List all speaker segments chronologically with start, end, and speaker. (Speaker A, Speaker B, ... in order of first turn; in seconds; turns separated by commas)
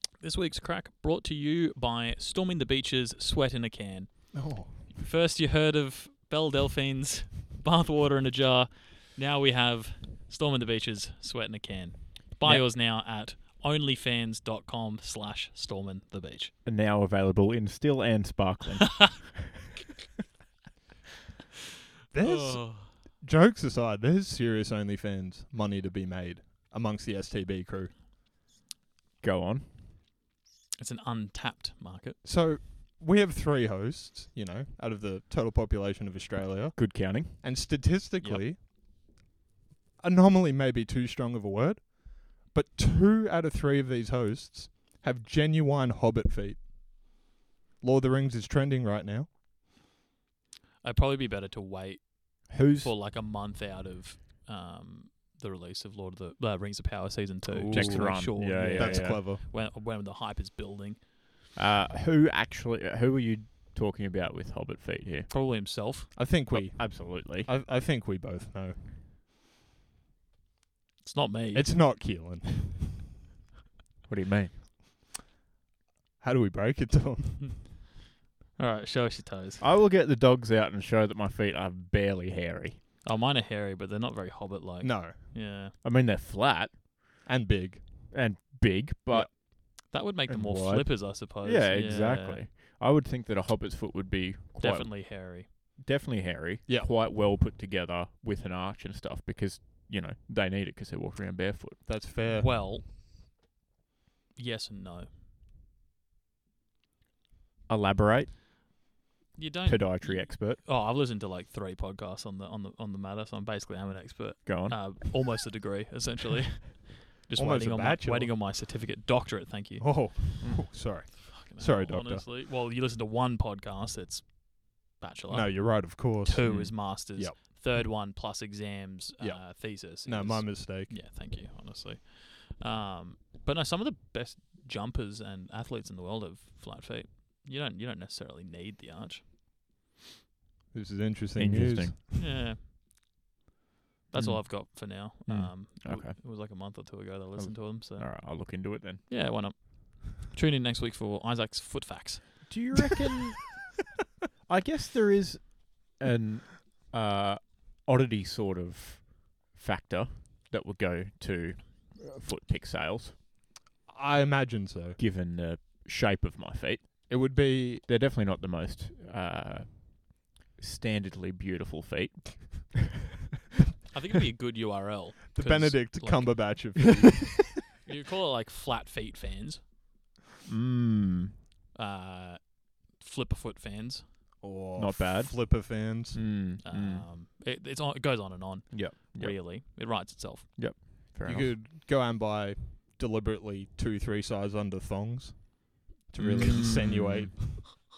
Speaker A: 0.2-16.5, Speaker B: 4.3-4.8, Speaker C: 12.4-12.7, Speaker C: 16.6-19.7, Speaker B: 22.1-27.9, Speaker A: 22.2-22.9, Speaker C: 29.2-29.7, Speaker A: 30.8-32.2, Speaker B: 32.2-38.6, Speaker C: 36.8-37.4, Speaker A: 38.2-38.5, Speaker B: 40.0-46.7, Speaker B: 47.8-49.3, Speaker A: 50.8-61.0, Speaker C: 52.5-52.9, Speaker B: 57.5-59.4, Speaker C: 57.7-59.2, Speaker C: 61.5-65.3, Speaker A: 65.3-66.1, Speaker B: 66.1-68.9, Speaker C: 66.5-67.5, Speaker A: 71.0-71.8, Speaker B: 71.5-73.0, Speaker C: 74.1-74.6, Speaker B: 76.2-77.5, Speaker A: 78.6-79.6, Speaker C: 79.6-82.8, Speaker A: 83.0-85.7, Speaker B: 84.8-85.2, Speaker C: 85.8-86.8, Speaker B: 87.2-88.1, Speaker C: 88.1-101.9, Speaker A: 89.9-92.4, Speaker A: 94.6-95.5, Speaker B: 101.8-102.5, Speaker A: 102.3-102.9, Speaker A: 104.3-105.1, Speaker C: 107.7-108.3, Speaker A: 109.3-120.4, Speaker C: 109.6-110.6, Speaker C: 114.4-115.1, Speaker B: 117.4-118.3, Speaker B: 119.8-122.2, Speaker C: 120.4-120.7, Speaker A: 121.3-139.3, Speaker B: 125.3-127.6, Speaker C: 126.4-126.8, Speaker B: 129.2-130.9, Speaker B: 140.7-142.2, Speaker C: 141.3-142.0, Speaker A: 142.2-142.6, Speaker A: 144.1-152.5, Speaker C: 144.1-146.2, Speaker C: 147.3-149.0, Speaker C: 152.4-153.6, Speaker C: 154.5-163.2, Speaker B: 163.9-165.0, Speaker C: 165.0-172.9, Speaker B: 167.1-167.8, Speaker A: 173.9-176.8, Speaker B: 175.3-177.5, Speaker A: 177.7-179.6, Speaker C: 180.4-181.3, Speaker A: 181.7-184.1, Speaker B: 184.4-186.2, Speaker C: 184.7-187.1, Speaker A: 186.6-190.5, Speaker C: 188.7-189.6, Speaker C: 190.6-191.5, Speaker B: 191.2-197.6, Speaker C: 196.2-197.7